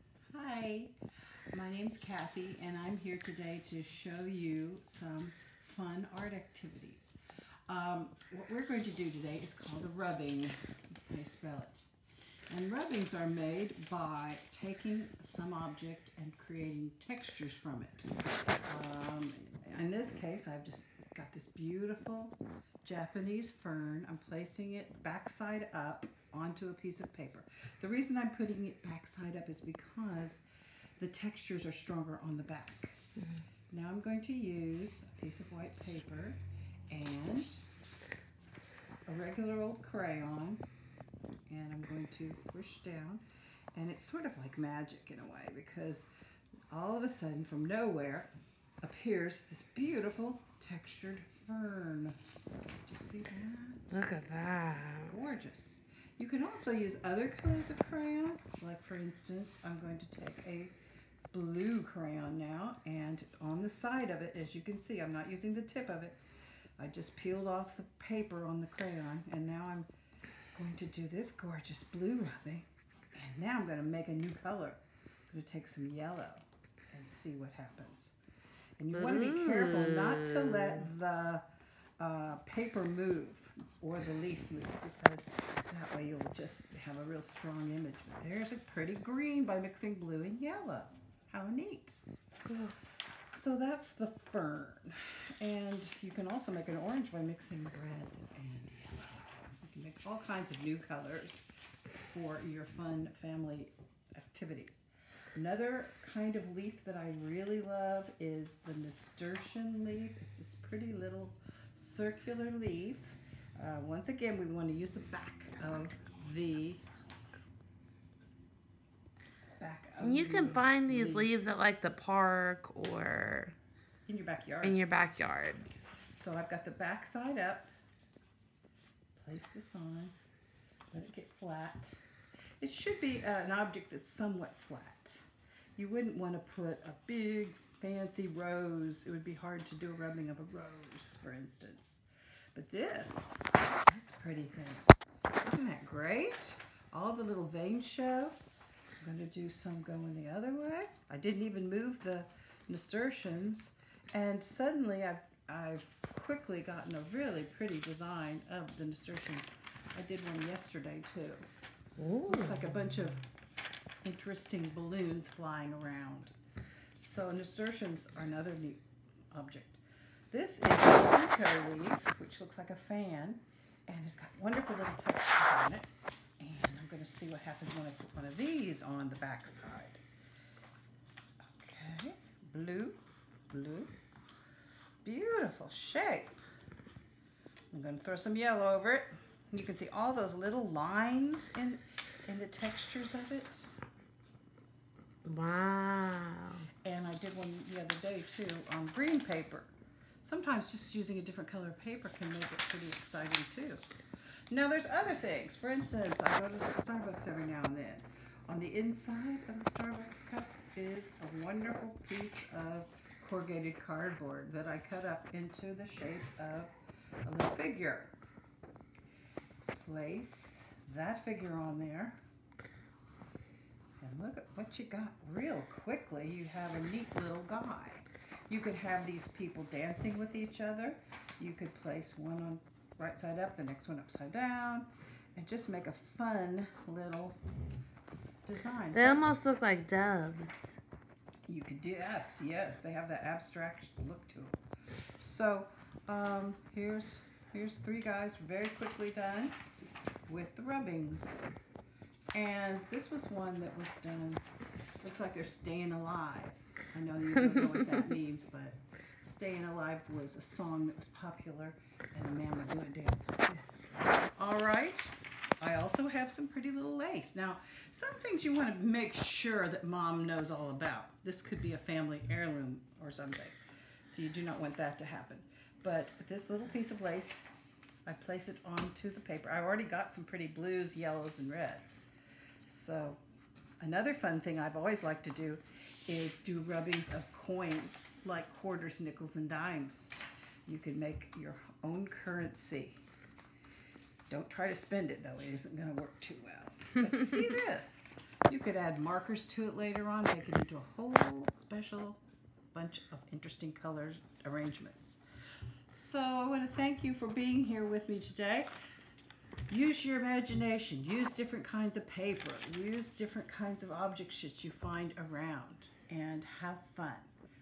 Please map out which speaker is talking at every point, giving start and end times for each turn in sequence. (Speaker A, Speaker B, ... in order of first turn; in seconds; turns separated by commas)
Speaker A: 0.3-0.9, Speaker A: 1.5-7.1, Speaker A: 7.7-11.9, Speaker A: 12.5-18.1, Speaker A: 18.7-30.4, Speaker A: 31.0-33.0, Speaker A: 33.7-36.4, Speaker A: 36.9-37.6, Speaker A: 39.1-40.6, Speaker A: 41.5-43.2, Speaker A: 43.7-46.1, Speaker A: 46.7-48.3, Speaker A: 48.8-52.2, Speaker A: 52.8-53.9, Speaker B: 53.9-55.1, Speaker A: 55.0-60.7, Speaker A: 61.3-66.2, Speaker A: 66.8-69.9, Speaker A: 70.5-78.2, Speaker A: 78.8-81.4, Speaker B: 78.9-80.8, Speaker A: 82.0-92.0, Speaker B: 92.5-92.7, Speaker A: 93.3-101.5, Speaker A: 102.1-116.8, Speaker A: 119.6-121.3, Speaker B: 120.0-123.5, Speaker A: 124.0-124.8, Speaker B: 124.6-125.7, Speaker A: 126.1-127.7, Speaker A: 129.1-130.1, Speaker A: 130.9-132.0, Speaker A: 132.6-135.2, Speaker A: 135.8-142.0, Speaker A: 142.5-144.9, Speaker A: 145.4-148.4, Speaker A: 149.0-161.4, Speaker B: 162.0-162.6, Speaker A: 162.3-163.2, Speaker A: 164.0-166.3, Speaker A: 167.0-175.9, Speaker A: 176.4-180.0, Speaker A: 181.4-183.9, Speaker A: 185.0-186.4, Speaker A: 187.7-193.7, Speaker B: 195.2-196.7, Speaker A: 196.8-203.8, Speaker A: 204.5-218.1, Speaker A: 219.7-222.2, Speaker A: 224.0-237.4, Speaker A: 238.4-239.3, Speaker B: 238.9-240.8, Speaker A: 241.5-244.6, Speaker A: 245.2-249.6, Speaker A: 250.3-251.4, Speaker A: 252.3-254.4, Speaker A: 255.0-277.5, Speaker A: 278.1-282.0, Speaker A: 282.6-283.2, Speaker A: 283.8-290.1, Speaker A: 290.7-293.0, Speaker A: 294.3-302.2, Speaker A: 302.7-305.2, Speaker A: 305.9-308.7, Speaker A: 309.7-317.3